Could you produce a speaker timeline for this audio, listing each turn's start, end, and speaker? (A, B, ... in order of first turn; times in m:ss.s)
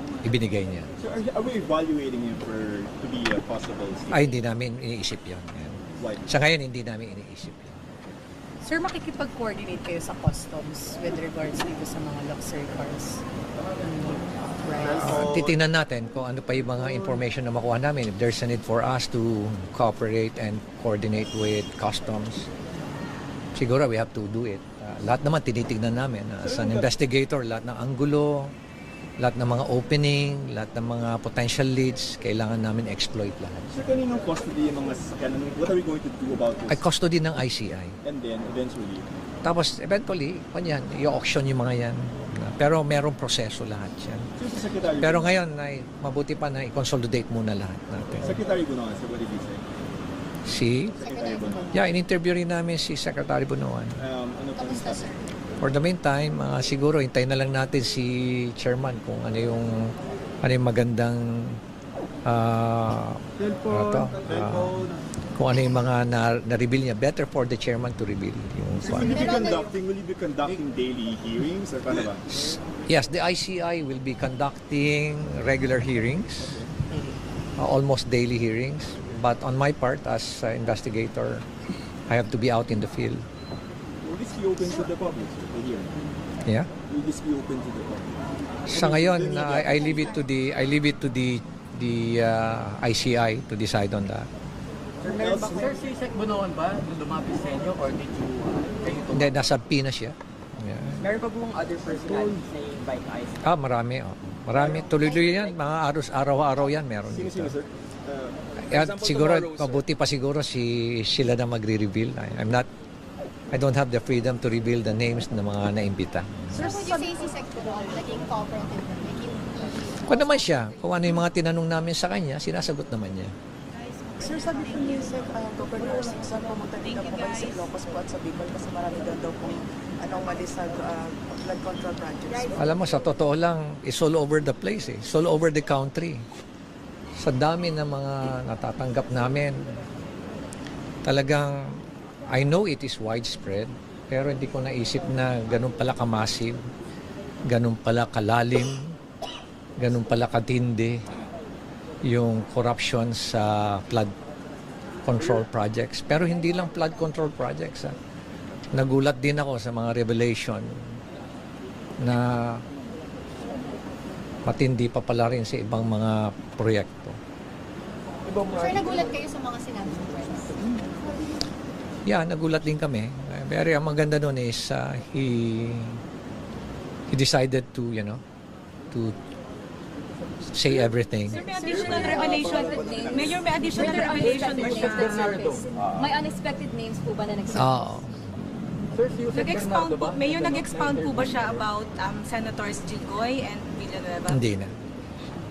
0:00.2-0:01.0 A
0:01.0-0:04.3 B
0:04.1-0:07.8 A
0:06.0-0:06.3 B
0:08.6-0:15.3 C
0:14.8-0:15.6 B
0:15.0-0:22.5 A
0:23.6-0:28.5 A
0:26.4-0:26.9 B
0:29.2-0:33.8 A
0:33.7-0:36.8 B
0:36.7-0:38.0 A
0:38.0-0:39.1 B
0:39.4-0:44.3 A
0:44.4-0:45.4 B
0:45.0-0:48.4 A
0:48.2-0:49.6 B
0:50.4-0:51.0 A
0:51.0-0:51.9 D
0:51.0-0:51.8 B
0:51.7-0:54.0 A
0:54.0-0:55.1 B
0:54.6-0:55.4 D
0:55.6-0:59.9 A
1:00.4-1:01.6 A
1:02.3-1:09.4 A
1:04.2-1:04.8 B
1:08.8-1:12.3 B
1:08.9-1:09.7 D
1:12.3-1:16.6 A
1:16.4-1:16.7 B
1:17.6-1:21.4 A
1:22.1-1:23.2 A
1:24.0-1:25.9 B
1:26.9-1:30.2 B
1:28.7-1:34.3 A
1:35.0-1:39.4 E
1:35.0-1:35.8 B
1:39.1-1:41.0 A
1:41.0-1:43.3 F
1:43.4-1:47.6 A
1:47.1-1:48.4 B
1:48.7-1:52.7 A
1:48.7-1:49.8 F
1:53.5-1:56.7 A
1:56.5-1:57.1 G
1:56.5-2:00.6 D
2:00.0-2:03.3 A
2:04.2-2:12.5 G
2:04.4-2:04.8 H
2:06.8-2:07.7 H
2:12.6-2:16.2 A
2:17.2-2:19.8 A
2:21.1-2:21.5 A
2:22.3-2:26.6 A
2:27.5-2:28.8 A
2:29.8-2:31.0 A
2:32.0-2:34.1 A
2:35.0-2:38.0 A
2:38.7-2:40.7 A
2:42.0-2:42.6 A
2:44.5-2:47.2 A
2:48.4-2:50.6 D
2:52.1-2:56.0 A
2:57.1-2:58.2 A
3:00.5-3:01.4 A
3:01.3-3:07.9 I
3:01.3-3:05.4 H
3:01.5-3:02.3 C
3:02.5-3:03.2 B
3:02.9-3:03.2 F
3:03.9-3:04.3 C
3:04.2-3:05.7 E
3:05.8-3:06.1 B
3:07.5-3:08.2 A
3:08.9-3:11.7 E
3:09.3-3:14.4 H
3:14.3-3:14.7 A